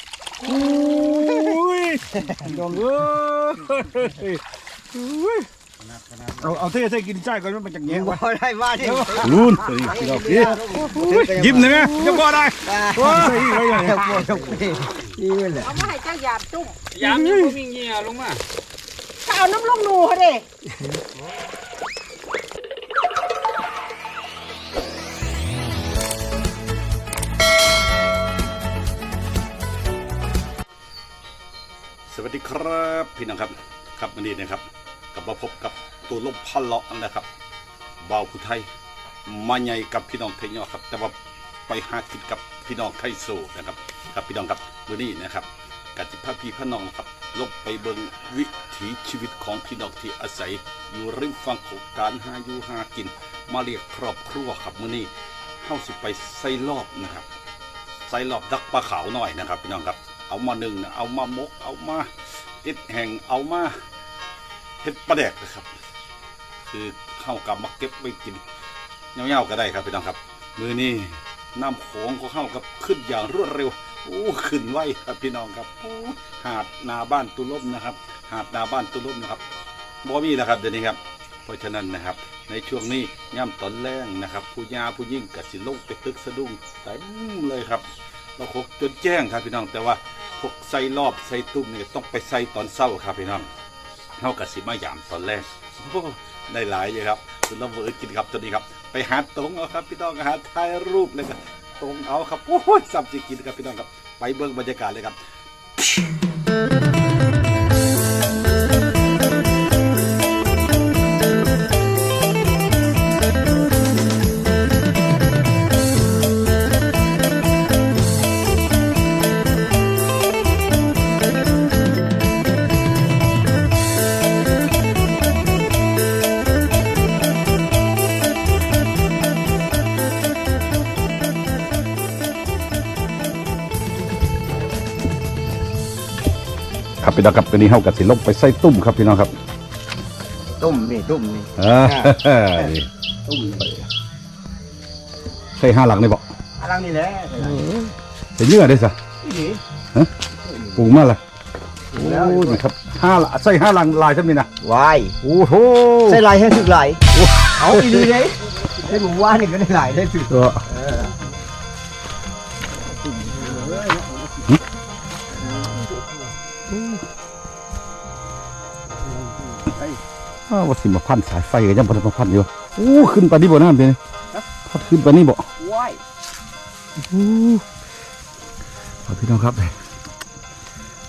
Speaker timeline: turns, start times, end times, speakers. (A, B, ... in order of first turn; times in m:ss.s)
0:00.4-0:05.5 A
0:01.1-0:01.6 B
0:02.1-0:02.5 B
0:05.8-0:06.7 C
0:06.4-0:08.2 A
0:07.9-0:15.8 B
0:09.1-0:14.4 A
0:10.2-0:10.8 C
0:14.5-0:14.9 C
0:15.6-0:16.8 D
0:16.9-0:18.4 C
0:17.1-0:17.5 A
0:19.2-0:20.4 D
0:32.1-0:37.3 A
0:38.0-0:38.7 A
0:39.3-0:55.1 A
0:55.6-0:57.3 A
0:58.1-1:03.7 A
1:04.8-1:05.7 A
1:06.7-1:08.4 A
1:09.2-1:19.4 A
1:20.0-1:27.8 A
1:28.4-1:33.5 A
1:34.2-1:45.2 A
2:17.0-2:19.4 A
2:20.6-2:22.7 B
2:21.6-2:22.9 A
2:23.3-2:23.7 B
2:25.6-2:26.2 A
2:26.6-2:27.7 B
2:27.4-2:29.0 A
2:29.2-2:29.6 B
2:30.8-2:31.2 A
2:31.9-2:34.5 A
2:32.0-2:32.6 B
2:34.6-2:35.2 B
2:35.2-2:36.3 A
2:36.0-2:37.0 B
2:37.1-2:38.1 A
2:37.5-2:41.2 B
2:40.3-2:40.6 A
2:43.0-2:44.6 B
2:45.4-2:46.2 B
2:46.7-2:47.0 A
2:49.0-2:50.0 B
2:50.5-2:54.0 A
2:54.7-2:55.4 A
2:55.6-2:56.0 B
2:57.0-2:57.6 A
2:59.1-2:59.7 A